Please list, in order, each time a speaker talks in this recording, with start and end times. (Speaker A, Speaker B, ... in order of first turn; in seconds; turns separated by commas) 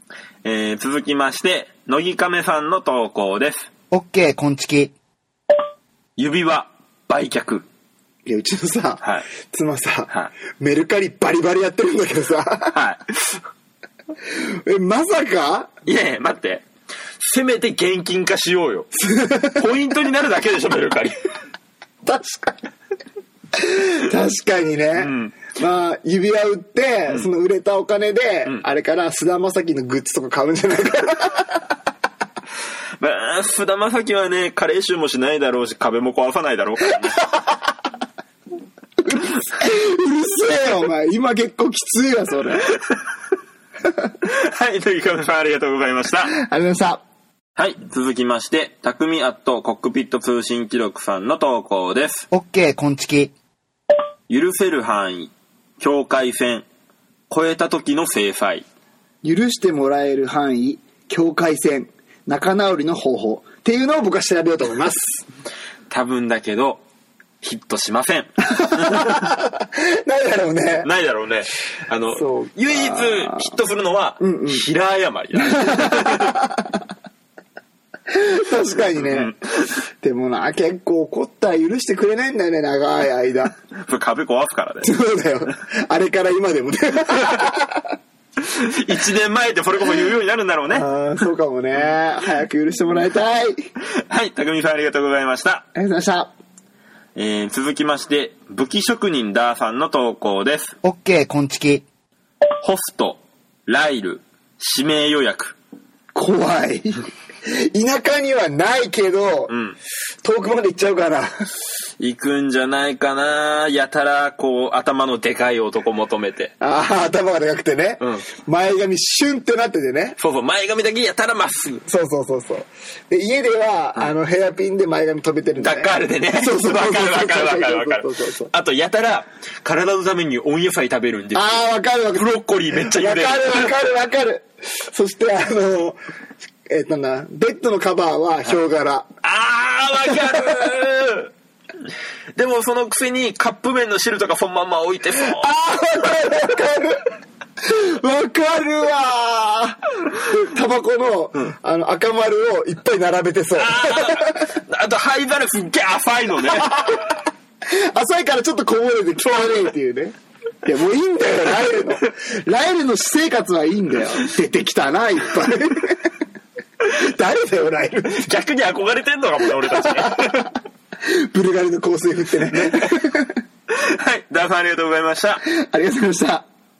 Speaker A: 0.4-3.7, Speaker B: 3.9-4.9, Speaker A: 6.2-7.7, Speaker C: 8.3-12.8, Speaker A: 12.7-13.2, Speaker C: 14.4-15.7, Speaker A: 15.9-16.6, Speaker A: 17.2-18.9, Speaker C: 19.0-19.6, Speaker A: 19.6-21.2, Speaker C: 22.1-22.6, Speaker C: 23.6-31.5, Speaker A: 25.0-25.4, Speaker A: 33.0-37.2, Speaker C: 39.1-42.7, Speaker A: 44.2-46.4, Speaker C: 46.4-47.0, Speaker A: 47.6-52.3, Speaker B: 52.3-53.3, Speaker A: 54.3-56.6, Speaker A: 57.3-58.6, Speaker C: 59.2-65.2, Speaker A: 65.9-66.8, Speaker A: 67.4-69.2, Speaker C: 68.5-70.9, Speaker A: 70.8-76.4, Speaker C: 72.2-73.5, Speaker C: 74.2-74.6, Speaker C: 75.4-76.6, Speaker C: 78.1-79.4, Speaker A: 79.1-79.3, Speaker C: 80.0-83.5, Speaker A: 83.8-84.9, Speaker C: 84.8-87.9, Speaker A: 88.5-90.9, Speaker C: 90.7-93.6, Speaker A: 94.1-95.7, Speaker C: 95.8-96.3, Speaker A: 97.2-100.8, Speaker B: 100.8-101.8, Speaker A: 102.6-105.6, Speaker C: 106.2-109.5, Speaker A: 109.5-109.8, Speaker C: 110.2-111.5, Speaker A: 112.0-116.5, Speaker C: 116.6-120.2, Speaker A: 120.2-121.8, Speaker C: 121.9-128.5, Speaker A: 125.6-131.6, Speaker C: 131.3-136.0, Speaker A: 132.1-133.9, Speaker C: 136.7-139.1, Speaker A: 139.2-141.3, Speaker A: 142.4-145.5, Speaker C: 145.2-147.1, Speaker C: 147.6-154.5, Speaker A: 153.6-156.8, Speaker C: 156.7-157.1, Speaker C: 157.7-166.0, Speaker C: 166.9-168.3, Speaker A: 168.2-170.5, Speaker C: 169.7-170.5, Speaker C: 171.0-173.3, Speaker A: 172.5-172.9, Speaker A: 173.7-175.4, Speaker C: 175.5-176.5